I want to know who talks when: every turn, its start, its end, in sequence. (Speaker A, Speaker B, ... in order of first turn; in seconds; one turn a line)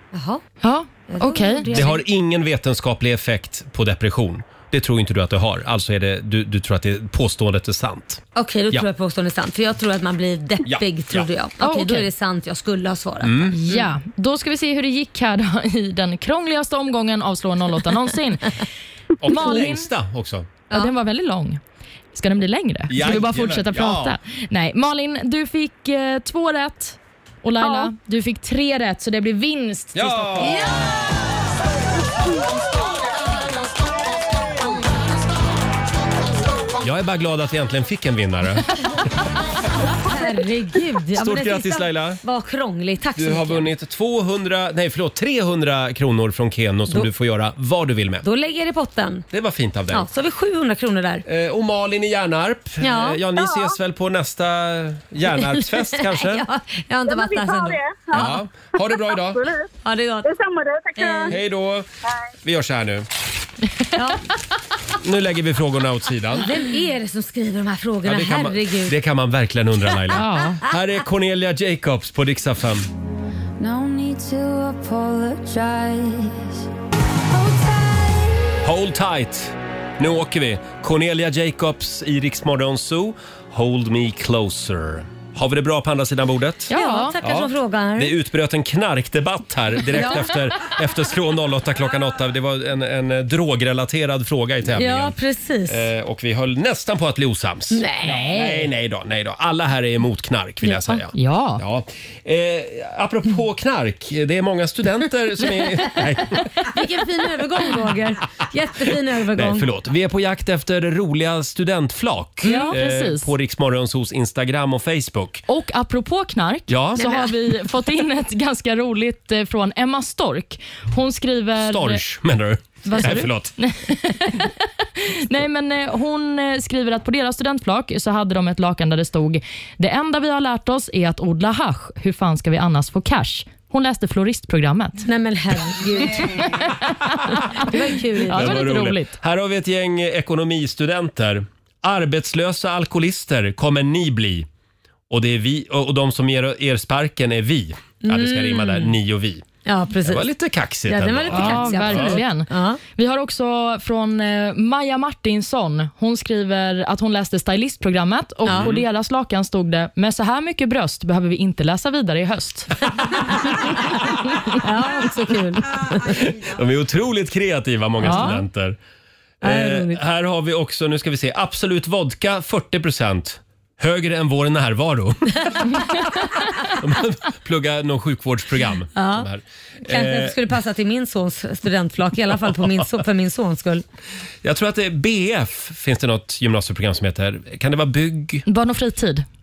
Speaker A: 0.1-0.4
Speaker B: 0.6-1.8
Speaker A: 1.1-2.0
Speaker C: 1.7-8.9
Speaker A: 8.3-13.5
Speaker C: 10.6-11.3
Speaker B: 11.6-12.1
Speaker C: 13.2-13.8
Speaker B: 13.5-18.5
Speaker C: 19.2-20.5
Speaker B: 19.2-19.9
Speaker B: 20.7-21.6
Speaker B: 22.1-30.6
Speaker C: 22.9-24.1
Speaker C: 29.9-30.7
Speaker A: 30.4-30.7
Speaker C: 36.8-38.8
Speaker A: 40.0-43.7
Speaker C: 41.1-42.2
Speaker C: 43.2-48.2
Speaker A: 48.2-49.3
Speaker C: 49.3-50.1
Speaker A: 49.9-51.2
Speaker C: 51.2-56.4
Speaker A: 52.8-53.2
Speaker D: 53.4-53.7
Speaker A: 55.6-58.4
Speaker D: 57.1-59.7
Speaker C: 58.1-59.5
Speaker A: 59.8-60.3
Speaker D: 60.2-61.4
Speaker A: 61.0-61.4
Speaker C: 61.3-61.9
Speaker C: 62.4-63.1
Speaker A: 63.9-64.2
Speaker C: 65.0-66.5
Speaker A: 66.4-68.9
Speaker C: 68.0-72.9
Speaker B: 70.1-70.6
Speaker E: 73.6-76.5
Speaker E: 77.5-78.0
Speaker C: 78.6-95.1
Speaker B: 86.7-87.1
Speaker A: 86.7-88.1
Speaker A: 90.0-90.2
Speaker A: 94.7-95.9
Speaker C: 95.7-106.7
Speaker A: 97.7-98.3
Speaker B: 98.0-98.7
Speaker B: 100.6-101.6
Speaker A: 106.6-109.7
Speaker C: 109.3-115.4
Speaker A: 112.4-112.7
Speaker B: 112.4-113.3
Speaker B: 115.5-122.0
Speaker C: 116.7-117.3
Speaker C: 121.6-123.5
Speaker A: 122.8-123.2
Speaker B: 122.9-135.1
Speaker A: 135.0-136.6
Speaker B: 136.5-136.8
Speaker B: 137.4-139.1
Speaker A: 137.5-138.6
Speaker C: 138.3-144.5
Speaker C: 145.1-149.4
Speaker A: 148.0-148.9
Speaker A: 149.6-150.2
Speaker C: 150.0-152.2
Speaker A: 150.9-152.8
Speaker B: 151.3-163.4
Speaker A: 158.4-158.7
Speaker C: 158.5-158.8
Speaker A: 164.6-166.2
Speaker C: 166.1-168.8
Speaker B: 168.0-168.4
Speaker A: 168.1-168.3
Speaker C: 169.4-180.4
Speaker A: 169.4-170.0
Speaker A: 178.9-179.3
Speaker A: 179.9-183.8
Speaker C: 184.4-188.4
Speaker B: 188.4-189.2